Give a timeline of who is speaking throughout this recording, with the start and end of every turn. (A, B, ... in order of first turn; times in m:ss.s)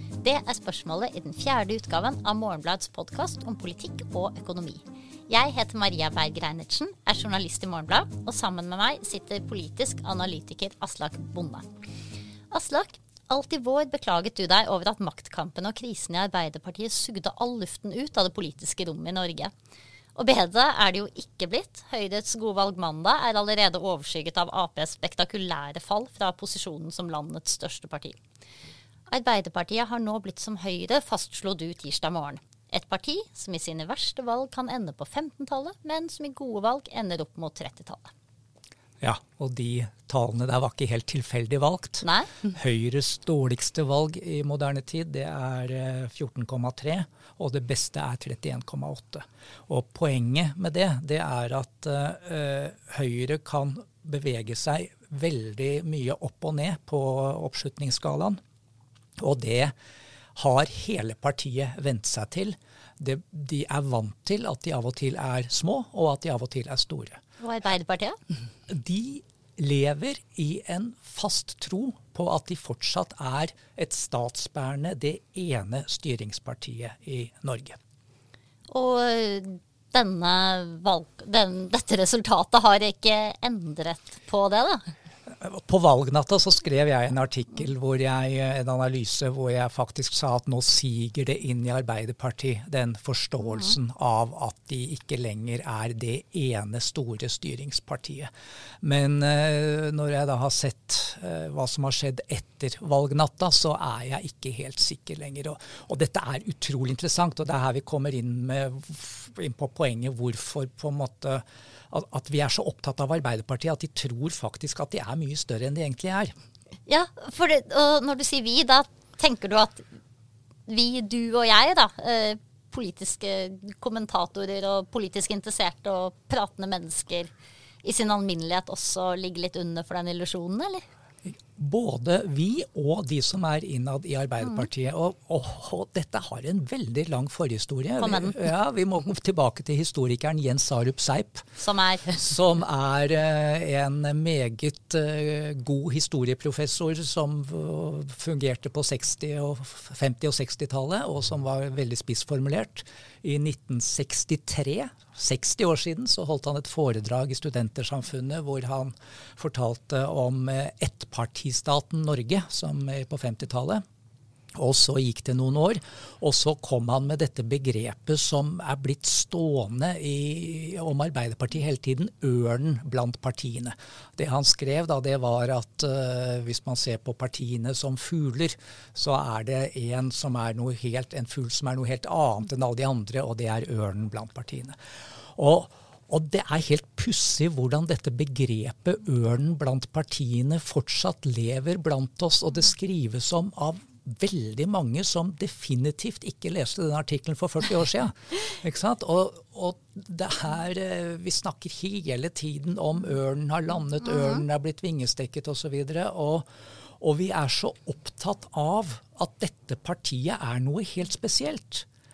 0:00.2-0:11.7 A
0:12.5-0:19.5 A
0:20.2-0:28.2 A
0:29.1-0:38.1 A
0:39.0-0:58.4 B
0:42.0-0:42.4 A
0:59.2-0:59.7 B
1:00.4-1:07.2 B
1:07.4-1:08.2 A
1:08.7-1:17.8 B
1:18.7-1:24.9 A
1:25.3-1:38.3 B
1:38.8-1:56.3 B
1:56.9-1:59.8 A
2:00.7-2:07.3 A
2:07.8-2:10.8 A
2:11.3-2:21.5 B
2:18.0-2:18.5 A
2:21.6-2:22.3 A
2:22.2-2:43.8 B
2:44.6-3:04.8 B
3:05.4-3:26.5 B
3:27.0-3:31.9 B